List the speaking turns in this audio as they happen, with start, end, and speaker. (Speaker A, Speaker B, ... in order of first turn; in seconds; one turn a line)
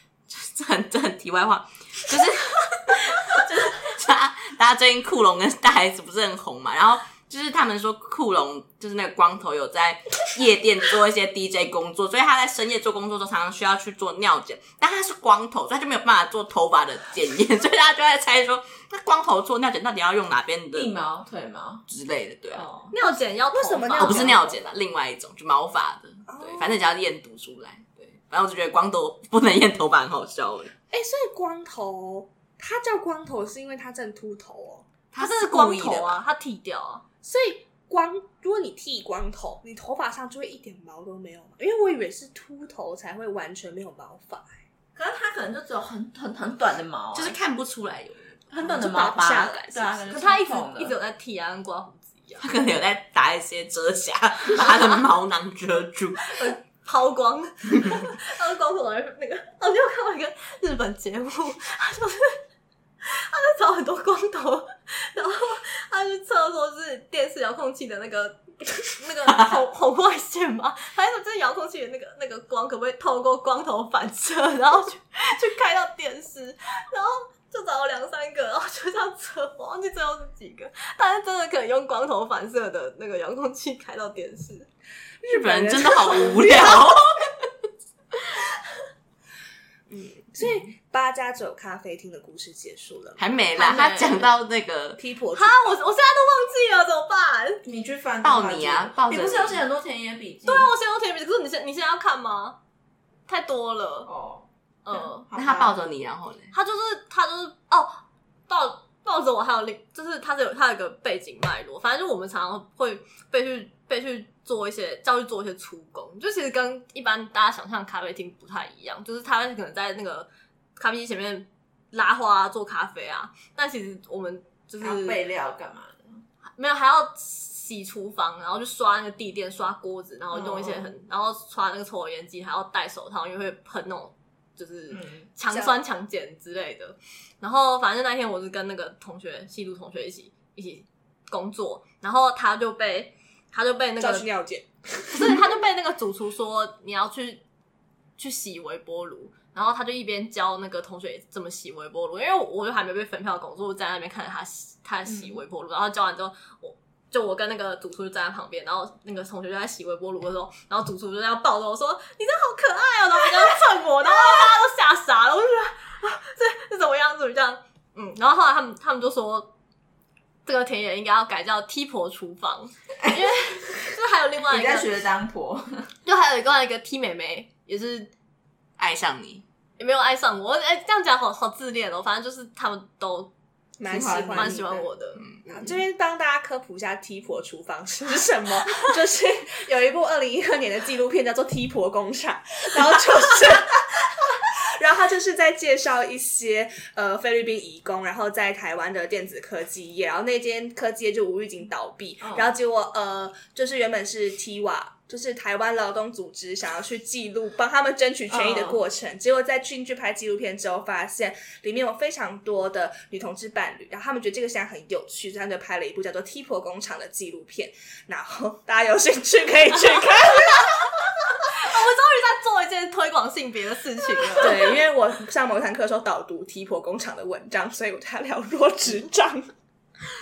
Speaker A: 0.3-20.9
Speaker B: 20.7-21.8
Speaker A: 21.9-22.7
Speaker B: 22.5-22.9
Speaker C: 22.9-24.4
Speaker D: 23.5-24.5
Speaker A: 24.0-30.7
Speaker D: 26.3-26.8
Speaker D: 30.9-34.9
Speaker A: 35.1-36.2
Speaker C: 35.2-37.0
Speaker D: 37.2-44.5
Speaker B: 45.0-47.4
Speaker A: 47.1-49.0
Speaker B: 48.5-51.0
Speaker D: 48.6-50.1
Speaker C: 50.1-52.5
Speaker A: 52.4-56.5
Speaker C: 56.3-62.4
Speaker C: 63.0-84.7
Speaker D: 85.2-86.9
Speaker A: 85.3-87.5
Speaker D: 89.9-93.2
Speaker A: 93.2-95.0
Speaker B: 93.6-94.2
Speaker C: 93.6-94.0
Speaker D: 95.0-95.8
Speaker C: 95.3-97.6
Speaker B: 97.6-100.7
Speaker A: 98.2-99.6
Speaker C: 100.5-102.6
Speaker C: 103.3-104.1
Speaker B: 104.1-105.8
Speaker C: 104.8-105.3
Speaker A: 105.3-106.5
Speaker C: 106.5-125.2
Speaker B: 124.8-126.2
Speaker C: 126.6-144.3
Speaker B: 130.3-130.9
Speaker B: 134.9-135.3
Speaker D: 135.5-135.8
Speaker D: 144.0-145.5
Speaker C: 145.1-147.4
Speaker C: 148.2-169.5
Speaker B: 155.1-155.4
Speaker C: 170.4-174.9
Speaker B: 174.5-175.9
Speaker C: 176.1-178.1
Speaker A: 178.8-179.4
Speaker C: 179.8-183.3
Speaker D: 183.8-184.9
Speaker B: 183.9-184.7
Speaker C: 184.1-185.4
Speaker D: 185.5-221.0
Speaker B: 202.2-202.6
Speaker B: 208.3-208.8
Speaker C: 221.4-224.8
Speaker D: 224.4-229.5